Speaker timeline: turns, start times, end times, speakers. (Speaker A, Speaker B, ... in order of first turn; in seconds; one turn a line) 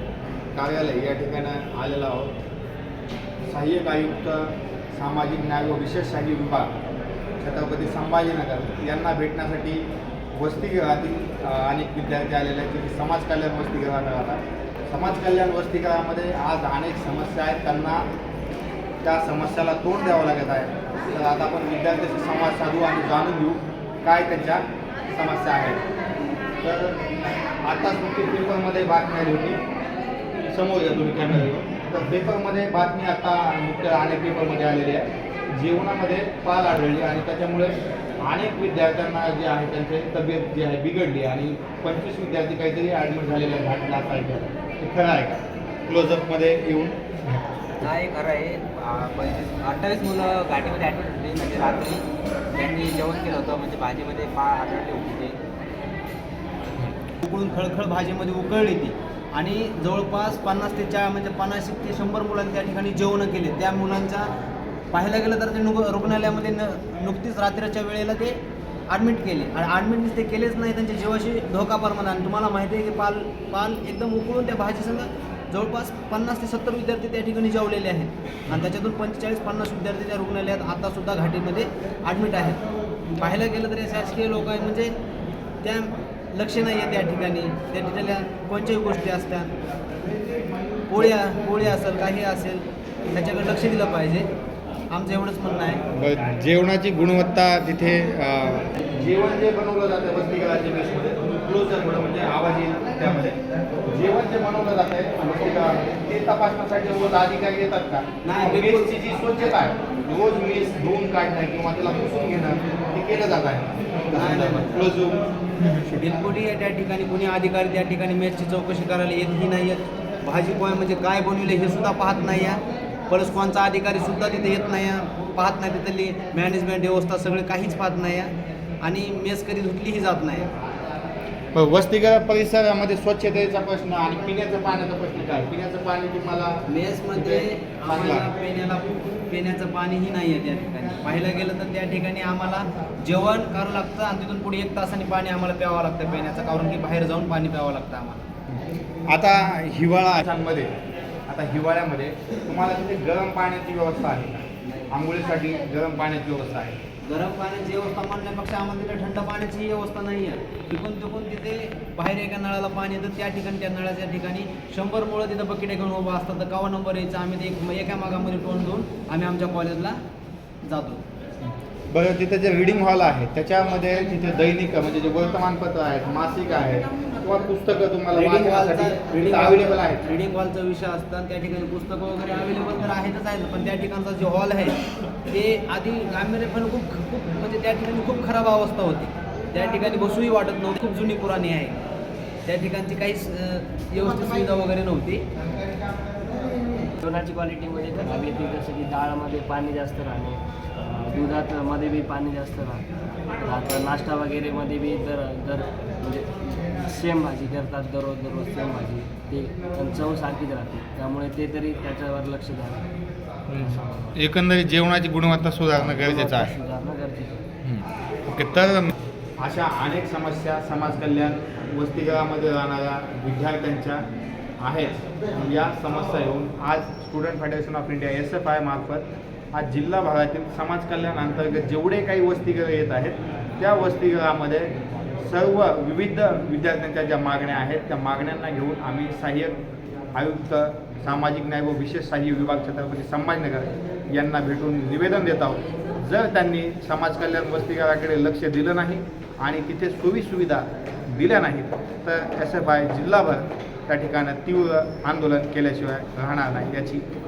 Speaker A: 0.6-2.4
Speaker A: 3.5-6.7
Speaker A: 7.4-18.1
Speaker A: 19.0-25.8
Speaker A: 26.6-27.0
Speaker A: 27.6-29.6
Speaker A: 30.5-47.4
Speaker B: 47.8-55.4
Speaker C: 57.2-64.3
Speaker C: 64.9-68.4
Speaker C: 68.9-82.6
Speaker C: 83.2-85.0
Speaker C: 85.6-89.5
Speaker C: 90.9-94.3
Speaker C: 94.9-95.8
Speaker A: 95.9-116.0
Speaker C: 108.2-109.6
Speaker C: 114.1-114.9
Speaker C: 116.0-130.5
Speaker A: 131.5-136.6
Speaker C: 136.7-148.2
Speaker A: 137.1-138.3
Speaker A: 149.1-150.7
Speaker A: 151.3-156.8
Speaker C: 154.7-154.9
Speaker C: 157.0-170.0
Speaker C: 170.6-171.0
Speaker A: 171.9-180.1
Speaker C: 178.1-184.8
Speaker C: 185.3-191.8
Speaker C: 192.5-195.2
Speaker D: 197.0-202.8
Speaker D: 203.4-212.8
Speaker A: 213.5-216.5
Speaker D: 213.5-214.1
Speaker D: 215.7-217.4
Speaker A: 217.6-224.0
Speaker A: 224.6-239.6
Speaker A: 240.1-257.0